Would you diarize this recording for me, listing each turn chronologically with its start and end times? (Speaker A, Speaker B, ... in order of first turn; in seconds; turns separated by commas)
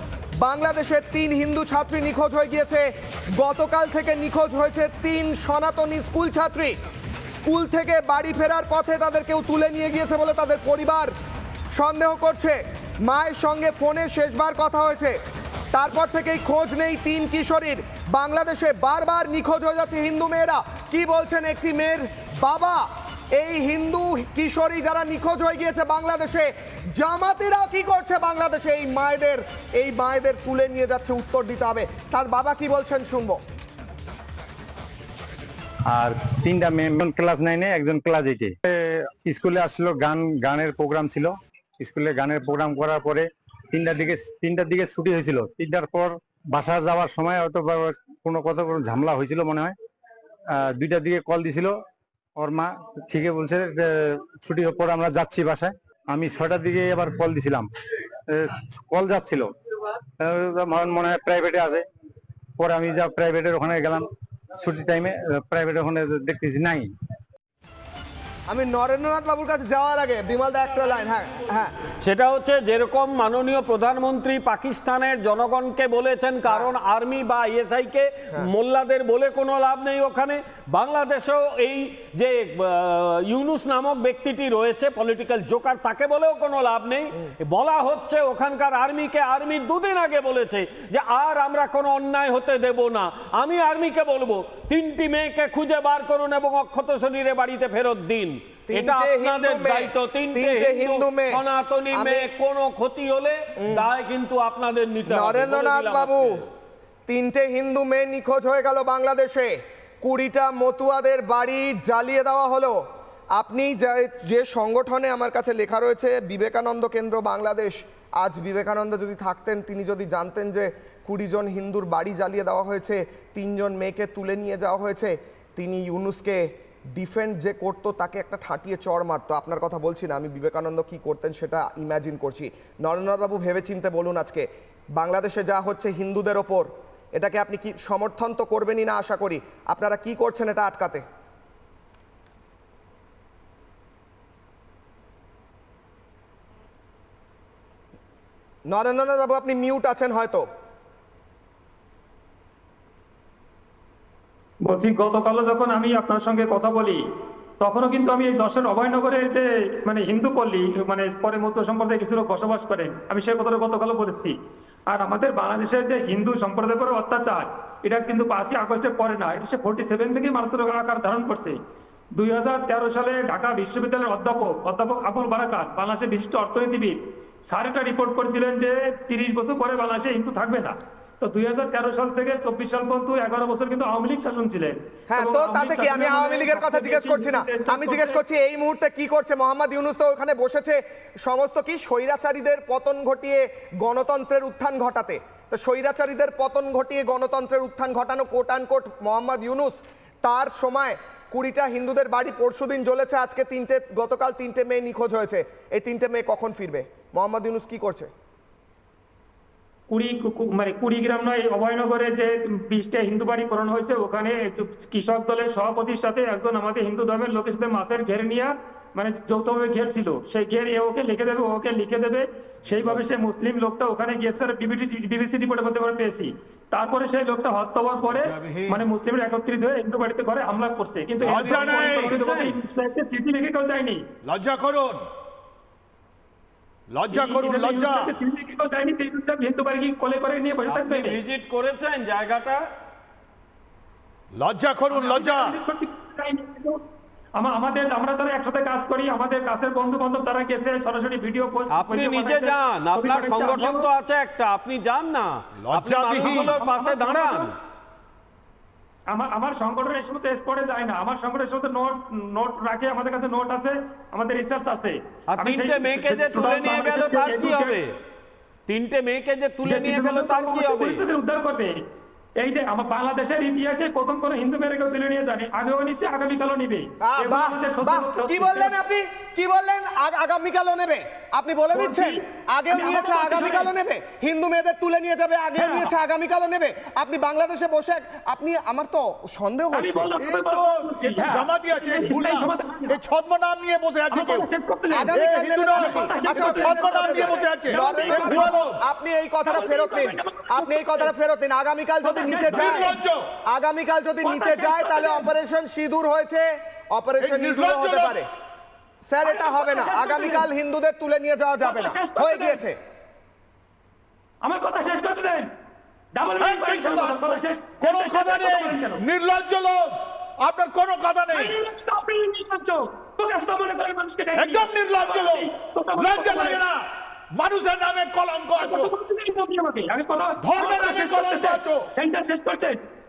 Speaker A: 0.4-6.8, Speaker A: 7.3-11.1, Speaker A: 11.7-15.2, Speaker A: 15.7-33.4, Speaker B: 35.9-49.7, Speaker B: 50.5-51.8, Speaker B: 52.4-57.7, Speaker B: 58.3-59.5, Speaker B: 60.2-61.8, Speaker B: 62.6-64.0, Speaker B: 64.6-66.9, Speaker A: 68.5-71.7, Speaker C: 72.0-106.5, Speaker A: 76.4-76.7, Speaker A: 98.7-102.3, Speaker A: 103.6-103.9, Speaker A: 105.0-106.4, Speaker A: 107.1-112.8, Speaker A: 113.3-141.0, Speaker A: 148.7-150.5, Speaker D: 154.7-157.0, Speaker D: 157.6-164.3, Speaker D: 164.9-171.6, Speaker D: 172.2-188.2, Speaker A: 185.1-208.1, Speaker D: 209.9-234.0, Speaker E: 222.7-223.0, Speaker E: 228.1-228.8, Speaker E: 231.2-232.2, Speaker C: 231.8-232.5, Speaker E: 234.2-235.0, Speaker E: 236.9-238.1, Speaker D: 237.1-241.2, Speaker C: 240.7-242.7, Speaker E: 244.3-245.5, Speaker D: 244.9-246.8, Speaker D: 247.4-253.9, Speaker C: 251.7-257.5, Speaker E: 255.6-256.6, Speaker D: 256.3-257.5, Speaker D: 259.1-267.8, Speaker C: 265.3-267.9, Speaker C: 268.7-271.0, Speaker D: 269.6-271.8, Speaker D: 272.4-278.8, Speaker A: 277.0-290.3, Speaker D: 281.7-283.7, Speaker D: 285.6-285.9, Speaker D: 289.7-293.0, Speaker E: 290.3-294.4, Speaker D: 294.1-295.2, Speaker A: 294.9-302.9, Speaker E: 295.1-298.8, Speaker D: 295.7-298.6, Speaker D: 299.5-301.1, Speaker D: 302.0-303.0, Speaker E: 302.3-303.3, Speaker A: 303.4-308.3, Speaker D: 304.2-305.3, Speaker E: 307.2-308.2, Speaker A: 309.0-312.8, Speaker D: 309.2-310.5, Speaker D: 311.6-312.6, Speaker D: 314.4-315.5, Speaker D: 316.1-319.0, Speaker E: 316.4-321.5, Speaker D: 321.3-326.6, Speaker E: 324.3-328.9, Speaker D: 328.6-332.8, Speaker E: 330.4-331.9